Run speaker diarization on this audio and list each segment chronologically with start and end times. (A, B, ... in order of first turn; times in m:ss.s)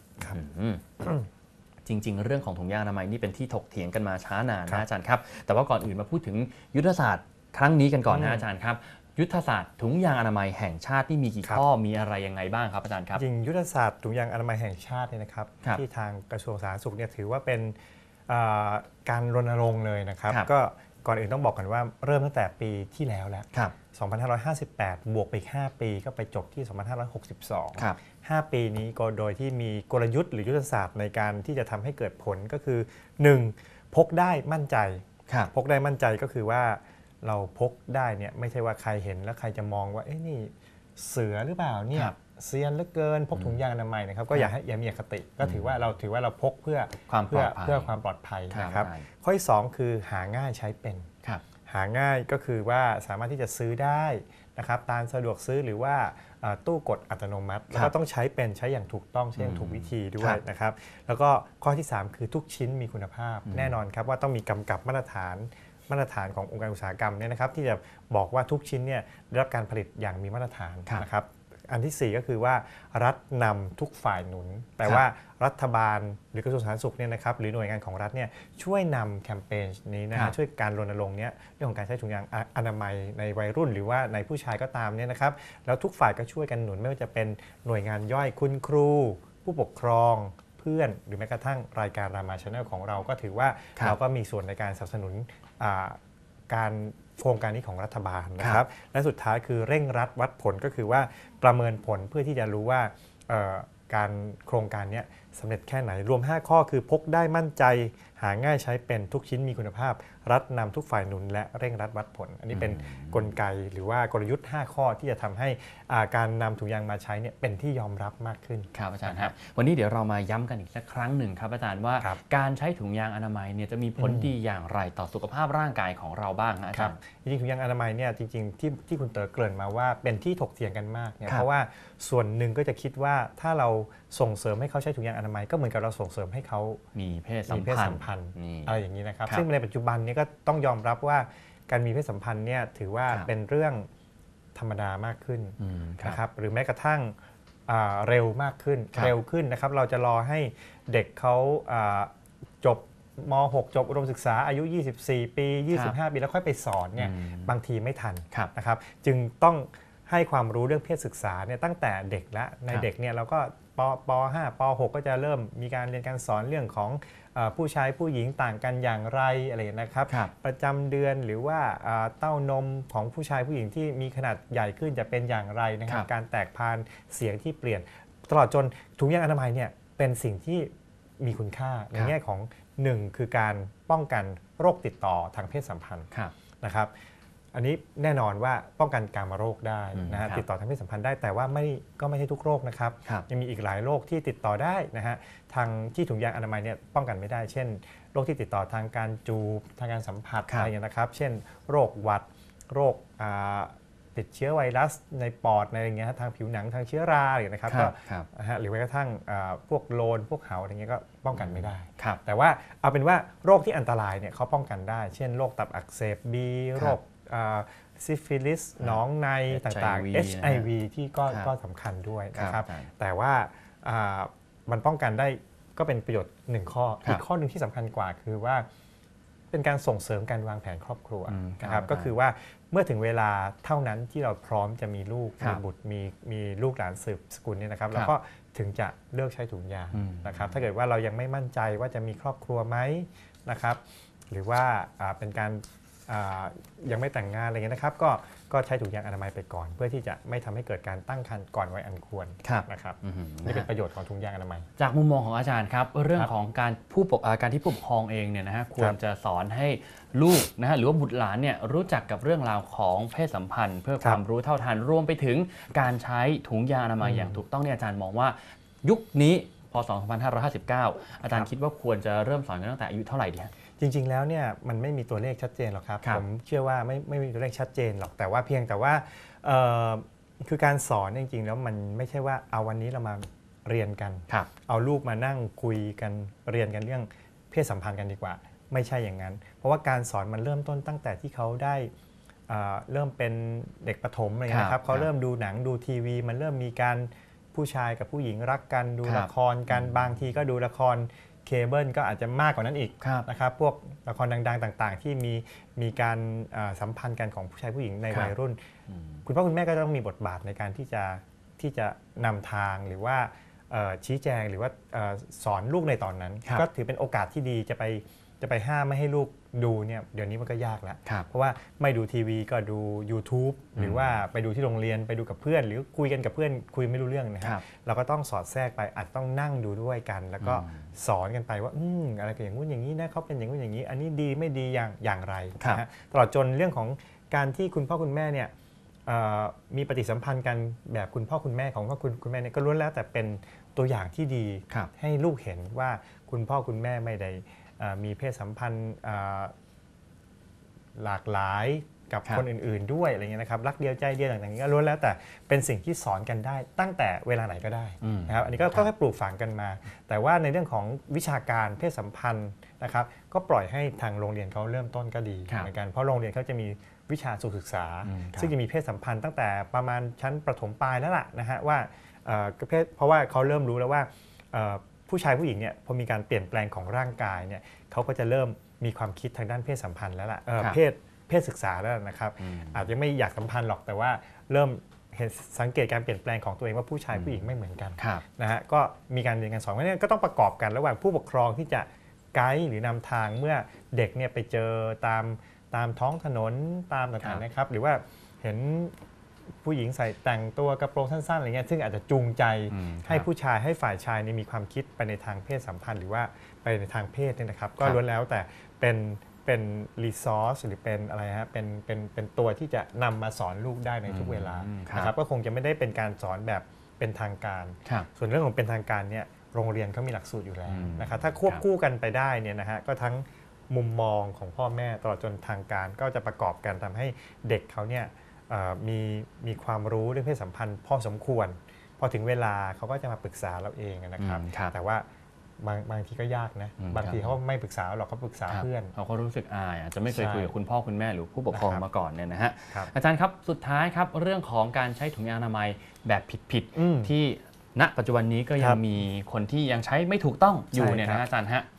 0:00.3-0:01.1 A
0:01.8-0:13.2 A
0:08.1-0:08.4 B
0:13.2-0:17.8 B
0:18.3-0:51.1 B
0:45.4-0:45.7 A
0:47.1-0:47.9 A
0:48.5-0:49.1 A
0:51.7-1:59.3 B
0:59.4-1:00.4 A
1:03.5-1:03.7 A
1:52.5-1:53.3 A
1:58.7-2:07.0 A
2:04.0-2:04.3 B
2:06.7-2:16.8 B
2:17.0-2:19.4 A
2:17.5-2:23.9 B
2:24.6-2:27.2 B
2:25.6-2:26.2 A
2:27.7-3:06.9 B
2:37.0-2:37.5 A
3:07.5-3:48.7 B
3:10.0-3:10.4 A
3:27.7-3:28.3 A
3:31.4-3:32.2 A
3:38.8-3:40.7 A
3:42.4-3:42.9 A
3:49.5-4:14.7 B
3:51.3-3:52.1 A
3:59.9-4:00.6 A
4:12.4-4:13.7 A
4:14.8-4:33.5 A
4:27.0-4:27.4 B
4:33.8-4:51.9 B
4:52.5-5:08.6 B
4:54.5-4:55.1 A
4:59.0-4:59.9 A
5:09.2-5:38.5 B
5:23.8-5:24.2 A
5:30.4-5:30.9 A
5:39.1-5:49.5 B
5:51.0-6:38.9 B
5:58.0-5:58.9 A
6:08.0-6:08.5 A
6:22.4-6:22.8 A
6:27.1-6:27.4 A
6:28.0-6:28.2 A
6:39.6-7:15.1 B
6:42.7-6:43.3 A
6:54.1-6:55.1 A
7:00.7-7:01.6 A
7:14.2-7:14.7 A
7:15.6-7:18.9 B
7:16.8-7:17.3 A
7:18.5-7:31.7 A
7:20.1-7:20.5 B
7:21.5-7:21.8 B
7:26.7-7:27.1 B
7:30.7-7:31.2 B